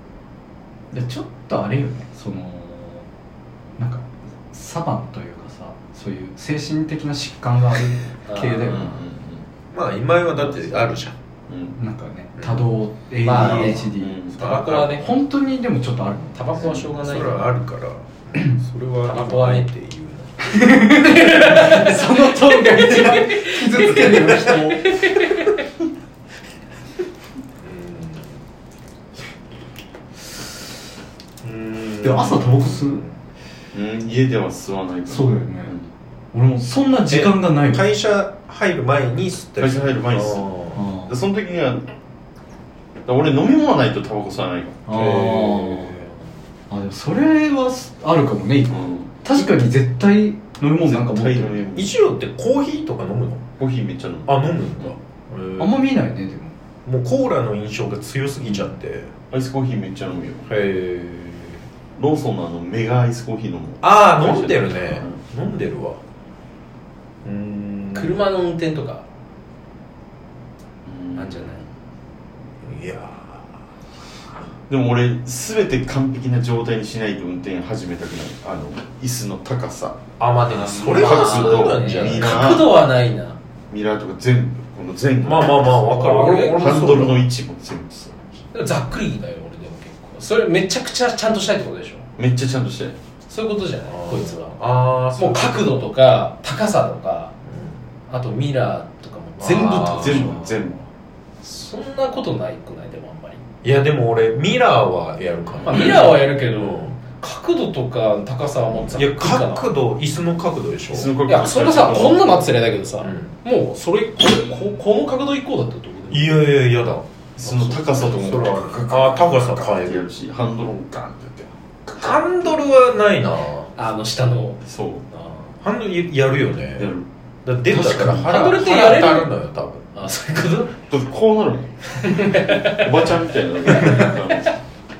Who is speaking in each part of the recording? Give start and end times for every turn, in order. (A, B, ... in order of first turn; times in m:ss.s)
0:00.9-0:03.1 A
0:03.8-0:09.0 A
0:08.3-0:08.8 B
0:08.7-0:09.4 C
0:09.7-0:11.2 D
0:10.4-0:10.9 B
0:11.5-0:11.8 C
0:11.8-0:14.2 A
0:12.4-0:12.7 D
0:13.2-0:15.1 B
0:13.3-0:15.0 D
0:13.9-0:14.4 C
0:14.9-0:16.5 A
0:16.4-0:17.5 B
0:16.6-0:21.0 D
0:16.6-0:16.8 C
0:19.1-0:19.7 B
0:20.5-0:24.9 A
0:20.9-0:25.6 B
0:27.6-0:28.3 D
0:31.4-0:33.1 D
0:32.0-0:33.0 A
0:33.7-0:35.9 C
0:35.1-0:35.8 A
0:36.3-0:37.9 A
0:37.1-0:40.8 D
0:39.6-0:41.9 C
0:40.7-0:41.2 A
0:43.1-0:45.0 C
0:44.9-0:46.0 A
0:44.9-0:46.1 D
0:46.7-0:51.7 A
0:48.7-0:49.2 C
0:50.8-0:51.9 C
0:51.7-0:53.4 D
0:53.6-0:54.9 C
0:54.3-0:55.8 D
0:55.6-0:56.6 A
0:56.9-0:59.1 D
0:59.3-1:00.5 C
1:00.5-1:01.6 D
1:02.0-1:05.2 C
1:03.8-1:06.0 D
1:07.2-1:08.2 D
1:07.9-1:09.1 B
1:10.9-1:11.7 C
1:11.2-1:11.6 B
1:12.6-1:13.5 D
1:14.7-1:20.0 C
1:20.2-1:22.5 D
1:20.5-1:23.4 B
1:20.6-1:22.8 C
1:23.7-1:28.2 C
1:25.2-1:27.3 D
1:25.9-1:26.9 B
1:28.5-1:32.1 B
1:32.2-1:33.0 C
1:33.3-1:34.6 B
1:33.8-1:35.8 D
1:35.1-1:37.3 B
1:37.5-1:37.8 D
1:38.1-1:40.7 B
1:39.4-1:40.4 D
1:39.4-1:40.8 C
1:41.4-1:43.4 B
1:43.6-1:47.0 D
1:45.6-1:49.7 B
1:45.7-1:46.0 C
1:48.9-1:51.1 D
1:50.9-1:52.4 C
1:51.3-1:56.4 B
1:53.0-1:53.3 D
1:56.1-1:57.0 D
1:57.4-2:01.5 C
1:57.5-1:58.1 B
1:58.0-2:00.1 D
2:01.9-2:03.7 D
2:03.8-2:05.5 B
2:04.6-2:05.0 C
2:05.6-2:06.9 D
2:06.8-2:07.1 C
2:07.4-2:09.8 D
2:07.7-2:08.1 A
2:08.0-2:09.3 B
2:10.0-2:10.7 B
2:10.9-2:14.5 C
2:12.0-2:12.9 B
2:13.8-2:14.1 B